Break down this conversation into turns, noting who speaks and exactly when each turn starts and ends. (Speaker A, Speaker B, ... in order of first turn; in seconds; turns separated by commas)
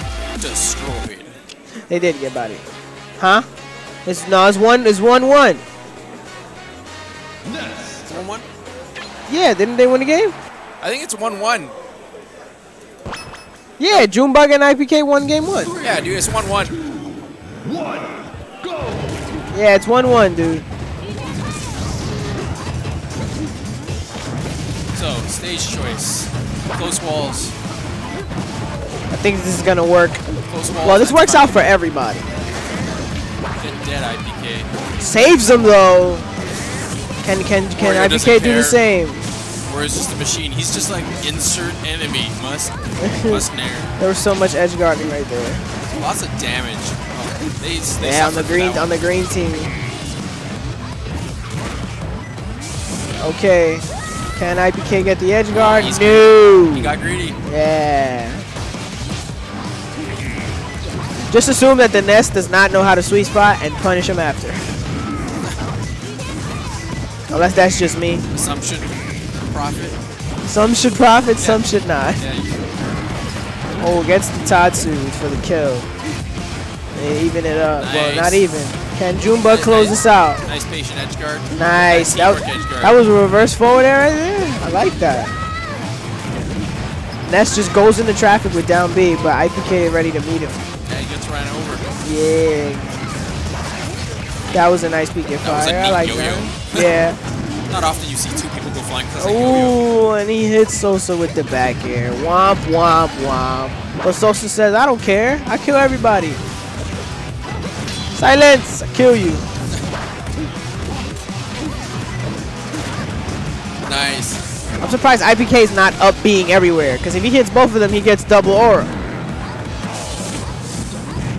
Speaker A: 0.4-1.4, Speaker B: 1.9-2.6, Speaker B: 3.2-3.5, Speaker B: 4.1-5.6, Speaker A: 8.0-8.5, Speaker B: 9.3-10.3, Speaker A: 10.8-11.7, Speaker B: 13.8-15.8, Speaker A: 15.7-16.8, Speaker B: 19.5-20.6, Speaker A: 24.9-27.5, Speaker B: 29.1-30.2, Speaker A: 30.5-31.6, Speaker B: 30.8-32.3, Speaker A: 33.6-34.7, Speaker B: 35.0-36.3, Speaker B: 37.2-39.2, Speaker A: 37.8-38.8, Speaker A: 39.7-42.8, Speaker B: 43.0-43.4, Speaker A: 43.3-43.9, Speaker B: 44.0-45.6, Speaker A: 45.9-48.9, Speaker B: 48.0-49.8, Speaker B: 53.2-53.8, Speaker B: 54.4-56.9, Speaker A: 55.5-57.4, Speaker B: 57.5-58.4, Speaker B: 61.3-64.8, Speaker B: 67.3-68.3, Speaker A: 68.3-70.0, Speaker B: 70.5-72.2, Speaker A: 71.4-71.6, Speaker A: 72.2-72.7, Speaker B: 73.8-75.9, Speaker B: 77.0-80.4, Speaker A: 77.8-78.4, Speaker A: 79.3-83.0, Speaker B: 81.5-85.3, Speaker B: 87.3-90.6, Speaker A: 90.9-92.0, Speaker B: 92.0-93.0, Speaker B: 94.5-97.2, Speaker A: 95.4-96.9, Speaker A: 97.7-99.8, Speaker B: 99.2-106.4, Speaker B: 108.1-109.4, Speaker A: 113.8-114.4, Speaker B: 114.8-118.9